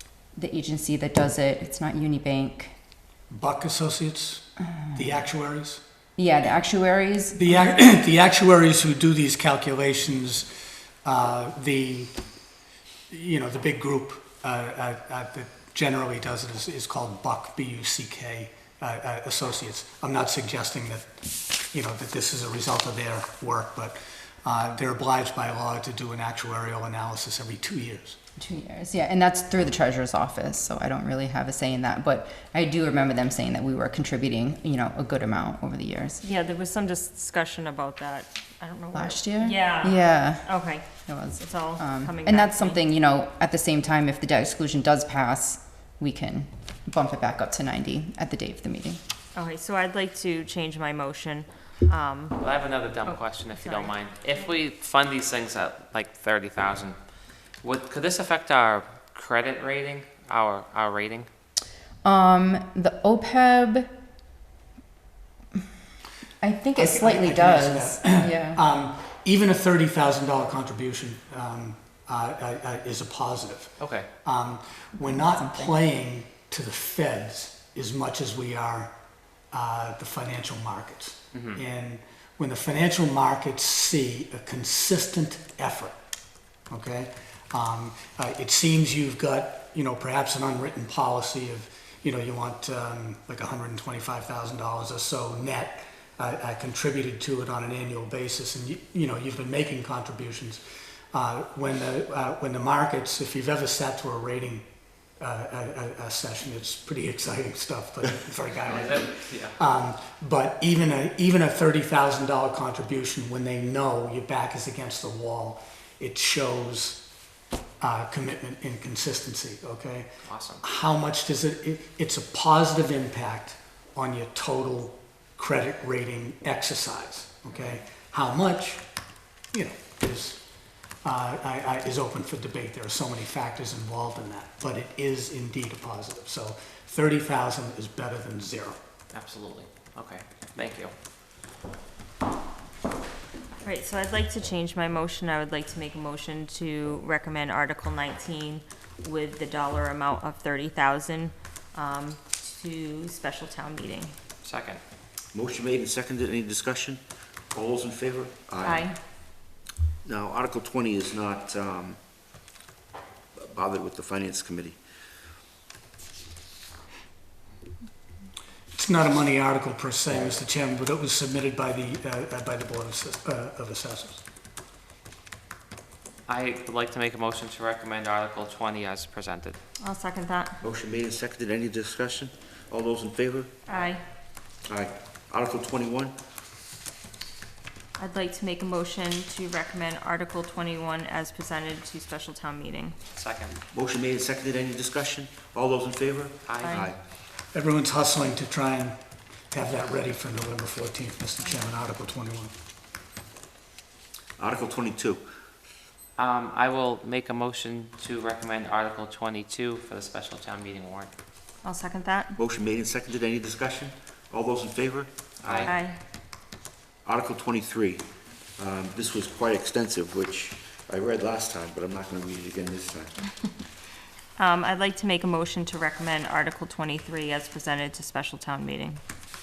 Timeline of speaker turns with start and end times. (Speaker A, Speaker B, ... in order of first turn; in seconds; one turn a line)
Speaker A: 0.4-2.8
Speaker B: 3.3-5.8
Speaker A: 6.2-7.7
Speaker B: 7.4-10.5
Speaker B: 11.0-12.1
Speaker B: 13.1-21.1
Speaker B: 21.7-28.2
Speaker A: 28.4-36.2
Speaker C: 36.2-42.8
Speaker A: 38.9-49.0
Speaker C: 49.3-52.5
Speaker D: 52.4-57.0
Speaker C: 53.0-54.5
Speaker D: 57.6-61.3
Speaker A: 62.0-63.9
Speaker A: 66.4-68.6
Speaker B: 66.8-78.9
Speaker D: 73.8-74.1
Speaker A: 75.1-75.7
Speaker B: 79.5-86.0
Speaker D: 81.3-81.6
Speaker B: 86.7-104.7
Speaker B: 105.2-117.0
Speaker D: 108.6-109.5
Speaker B: 117.8-120.1
Speaker D: 120.2-120.6
Speaker B: 120.6-128.8
Speaker B: 129.5-130.4
Speaker B: 131.0-138.8
Speaker D: 139.1-140.9
Speaker C: 143.6-154.2
Speaker D: 154.4-154.8
Speaker E: 155.3-157.0
Speaker E: 157.5-158.9
Speaker C: 158.6-159.0
Speaker E: 160.0-162.0
Speaker E: 163.3-164.8
Speaker B: 168.7-174.2
Speaker E: 170.1-170.4
Speaker D: 176.3-179.6
Speaker C: 179.8-180.6
Speaker E: 180.6-183.5
Speaker C: 183.7-184.0
Speaker E: 184.7-186.2
Speaker C: 188.0-193.0
Speaker D: 193.2-193.6
Speaker E: 193.7-197.0
Speaker D: 196.5-196.8
Speaker C: 196.6-196.9
Speaker B: 197.5-199.0
Speaker B: 199.5-202.5
Speaker E: 204.4-205.2
Speaker D: 206.2-211.1
Speaker C: 211.6-212.4
Speaker E: 212.4-215.8
Speaker D: 215.4-215.7
Speaker C: 215.6-216.0
Speaker E: 217.1-218.1
Speaker E: 218.6-223.1
Speaker C: 224.4-229.0